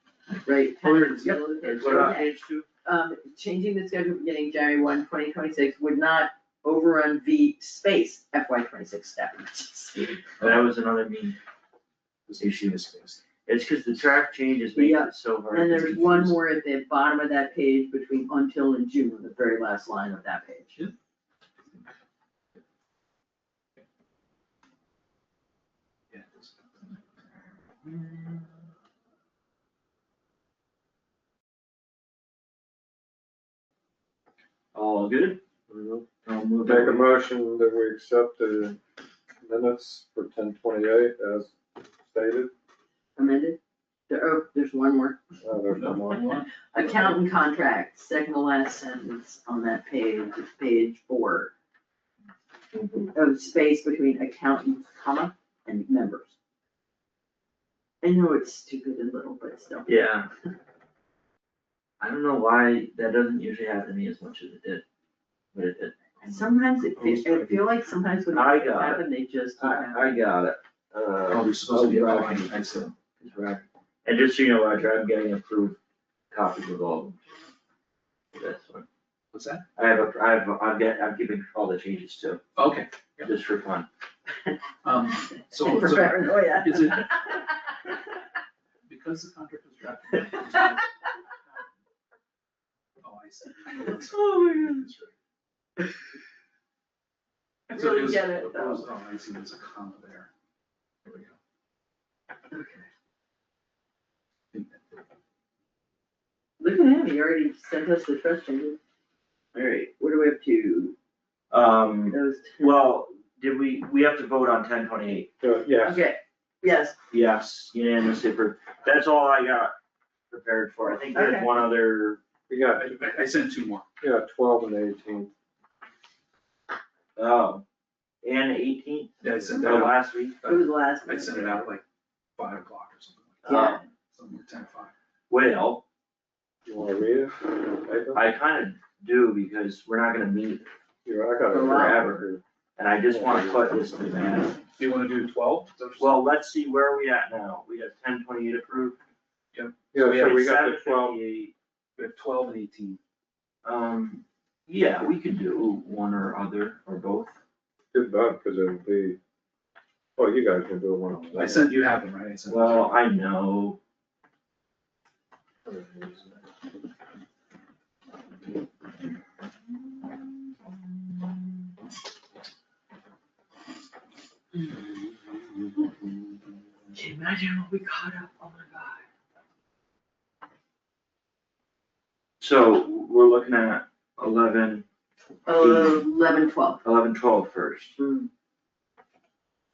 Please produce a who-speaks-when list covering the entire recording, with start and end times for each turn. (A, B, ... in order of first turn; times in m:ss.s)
0:00.4-0:02.3 A
0:00.8-0:02.1 B
0:01.6-0:02.7 C
0:02.8-0:10.2 A
0:10.4-0:11.4 C
0:12.3-0:13.2 B
0:12.4-0:12.8 C
0:13.4-0:16.4 C
0:14.8-0:20.9 A
0:26.1-0:26.6 B
0:27.8-0:28.5 C
0:34.7-0:35.4 C
0:35.7-0:36.1 D
0:36.2-0:37.1 C
0:36.6-0:38.8 D
0:39.4-0:42.5 D
0:43.2-0:45.2 A
0:45.4-0:46.3 D
0:45.7-0:47.2 B
0:46.7-0:51.5 A
0:52.8-0:53.1 C
0:53.1-0:56.4 A
0:58.0-1:00.1 A
0:59.9-1:00.3 C
1:02.0-1:04.8 C
1:05.5-1:06.5 C
1:06.2-1:10.2 A
1:07.0-1:07.7 B
1:08.3-1:09.1 C
1:09.6-1:15.8 C
1:11.3-1:12.9 B
1:16.3-1:17.2 C
1:18.4-1:18.9 C
1:19.3-1:19.6 B
1:19.8-1:22.4 C
1:22.6-1:23.3 B
1:23.2-1:23.9 C
1:24.8-1:27.3 B
1:25.5-1:27.5 A
1:28.9-1:30.9 B
1:33.0-1:35.2 B
1:37.7-1:38.9 A
1:37.7-1:40.3 B
1:41.0-1:41.4 B
1:42.5-1:42.9 A
1:44.5-1:44.8 B
1:46.6-1:48.8 A
1:49.5-1:49.9 C
1:49.9-1:51.0 A
1:51.5-1:55.3 C
1:52.1-1:52.8 A
1:55.4-1:56.0 D
1:55.8-1:57.0 A
1:57.1-1:59.8 C
2:00.3-2:02.2 C
2:01.1-2:01.6 A
2:02.5-2:02.9 D
2:02.8-2:03.9 B
2:04.0-2:05.3 D
2:07.2-2:07.6 C
2:08.2-2:10.4 C
2:09.2-2:11.8 B
2:10.5-2:11.7 A
2:12.4-2:13.6 B
2:13.4-2:13.8 A
2:13.5-2:13.8 C
2:14.1-2:14.9 B
2:15.3-2:15.8 C
2:16.7-2:18.2 D
2:18.2-2:20.7 C
2:21.0-2:22.4 D
2:21.5-2:22.0 A
2:21.6-2:24.6 C
2:23.1-2:23.7 D
2:24.8-2:26.2 B
2:26.0-2:29.0 C
2:29.5-2:29.8 B
2:29.9-2:31.2 D
2:30.0-2:31.5 C
2:32.0-2:33.0 B
2:33.6-2:37.4 C
2:37.9-2:39.2 D
2:40.2-2:41.7 D
2:41.3-2:42.9 B
2:42.5-2:43.8 C
2:45.7-2:46.4 D
2:57.0-2:59.0 A
3:02.4-3:04.9 C
3:05.5-3:06.8 A
3:05.6-3:06.1 C
3:06.8-3:08.0 C
3:08.0-3:08.3 A